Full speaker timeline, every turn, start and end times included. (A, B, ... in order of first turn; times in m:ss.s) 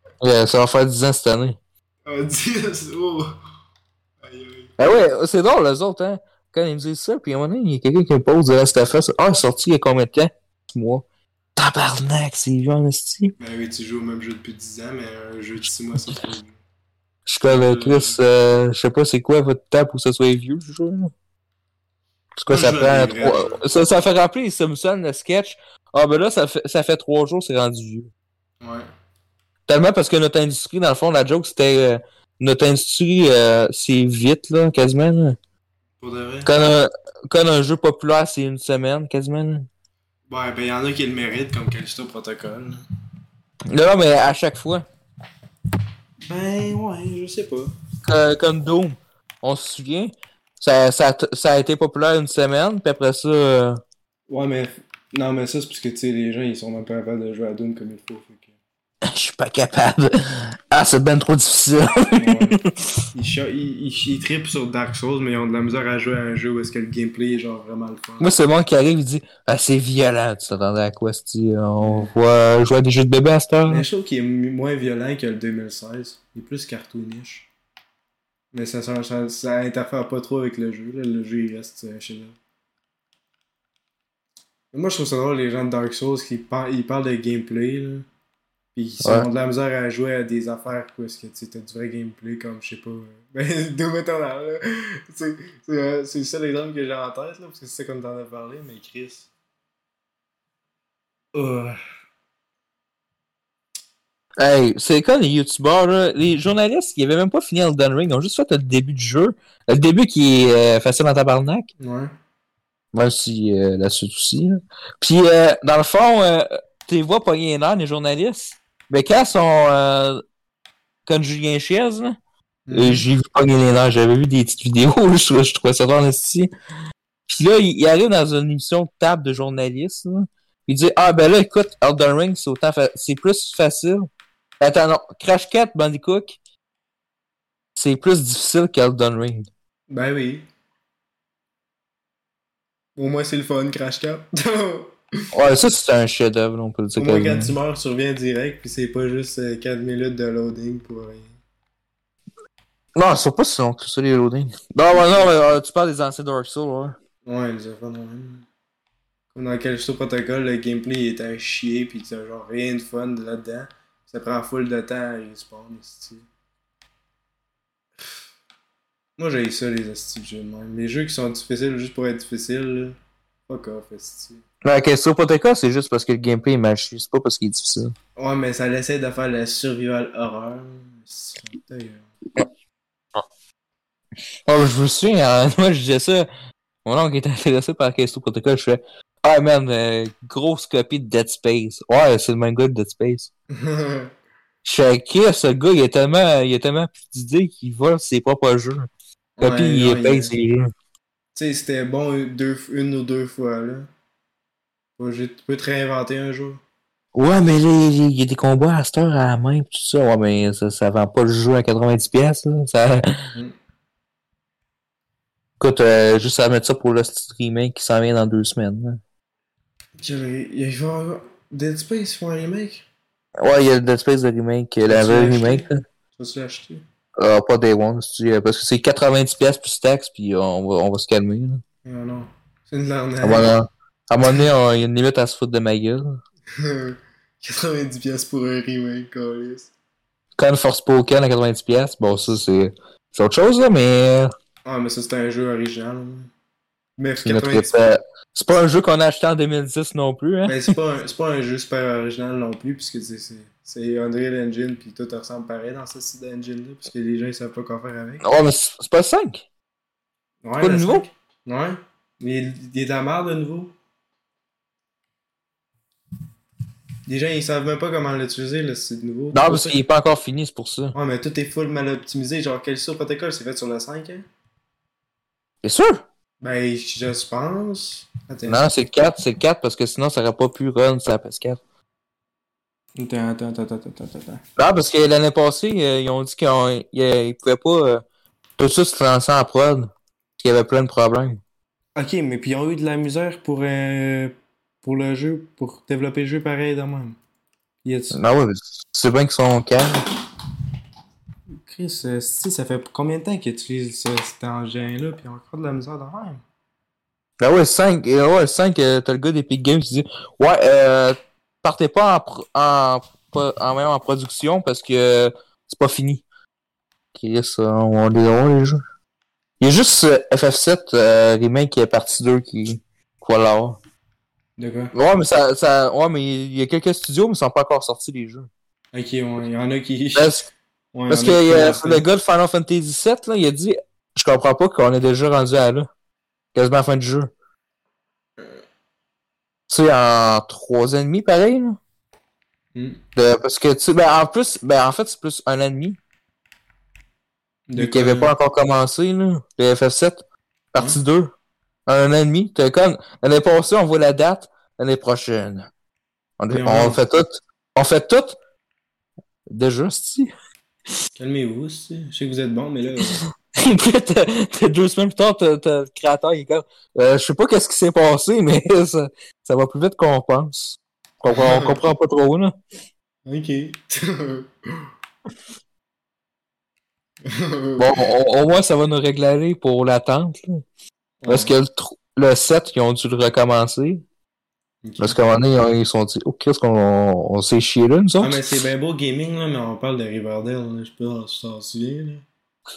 0:00.2-0:01.6 A
0:02.0-0:03.3 B
0:04.2-0:04.8 B
0:04.8-0:11.0 A
0:11.6-0:13.3 A
0:13.4-0:16.6 B
0:17.3-0:21.1 A
0:17.4-0:18.2 B
0:22.4-0:28.1 A
0:22.5-0:23.6 B
0:28.6-0:28.8 B
0:29.7-0:35.4 A
0:36.0-0:36.5 B
0:36.4-0:39.7 A
0:40.3-0:42.8 B
0:43.7-0:44.8 A
0:46.2-0:47.7 B
0:48.0-0:53.8 A
0:54.3-0:58.5 B
0:59.0-1:02.7 A
1:02.2-1:02.6 B
1:03.1-1:08.3 B
1:08.2-1:13.8 A
1:11.8-1:12.1 B
1:13.7-1:17.5 B
1:18.5-1:22.3 B
1:24.7-1:28.0 B
1:28.7-1:39.3 B
1:29.0-1:29.3 A
1:41.3-1:41.8 B
1:44.4-1:51.7 A
1:51.8-1:52.1 B
1:52.9-2:00.2 A
2:01.0-2:02.2 A
2:02.7-2:03.0 B
2:02.7-2:06.5 A
2:07.3-2:14.1 A
2:14.6-2:16.4 A
2:17.8-2:19.5 A
2:19.9-2:20.4 B
2:23.0-2:25.0 B
2:25.3-2:27.5 A
2:27.0-2:31.4 B
2:32.9-2:37.0 A
2:34.9-2:35.3 B
2:37.2-2:38.5 B
2:39.3-2:46.3 B
2:49.2-2:53.0 B
2:53.5-2:54.4 B
2:54.6-2:57.9 A
2:58.2-3:02.1 B
3:04.5-3:06.3 A
3:06.8-3:13.3 A
3:13.5-3:14.1 B
3:14.6-3:18.9 A
3:19.4-3:20.3 B
3:19.4-3:20.7 A
3:21.3-3:23.9 B
3:25.0-3:26.6 B
3:27.1-3:33.1 A
3:35.6-3:39.0 A
3:40.0-3:42.8 B
3:43.4-3:45.8 A
3:44.9-3:46.8 B
3:47.2-3:51.6 A
3:51.8-3:53.5 B
3:53.2-3:56.2 A
3:56.5-3:59.7 B
4:00.4-4:04.3 A
4:04.6-4:06.3 B
4:07.0-4:07.9 B
4:07.2-4:10.6 A
4:10.4-4:18.2 B
4:18.2-4:19.4 A
4:20.4-4:23.7 B
4:20.6-4:21.1 A
4:27.1-4:29.8 B
4:29.3-4:30.9 A
4:30.9-4:34.2 B
4:35.6-4:36.0 A
4:36.4-4:38.6 B
4:38.5-4:41.6 A
4:43.0-4:44.4 B
4:44.6-4:48.0 A
4:48.6-4:51.4 A
4:52.0-4:57.2 B
4:57.8-4:58.2 B
4:58.1-5:00.0 A
5:01.6-5:06.4 B
5:07.4-5:16.2 A
5:17.1-5:18.8 A
5:19.6-5:23.8 A
5:24.6-5:24.9 B
5:24.9-5:28.5 A
5:28.9-5:30.4 B
5:30.2-5:30.5 A
5:30.9-5:32.0 B
5:31.1-5:35.9 A
5:36.5-5:37.3 A
5:39.7-5:41.8 A
5:42.7-5:43.0 B
5:43.2-5:46.0 A
5:47.7-5:48.3 B
5:47.8-5:50.2 A
5:50.7-5:51.3 A
5:51.9-5:55.7 A
5:56.4-5:58.4 A
5:56.5-5:57.0 B
5:59.5-6:00.3 A
6:01.2-6:03.2 B
6:03.5-6:12.6 A
6:11.3-6:11.8 B
6:13.2-6:14.5 B
6:17.2-6:18.1 B
6:17.8-6:20.6 A
6:21.2-6:21.5 B
6:21.3-6:24.0 A
6:24.8-6:25.2 B
6:25.0-6:28.6 A
6:28.2-6:32.2 B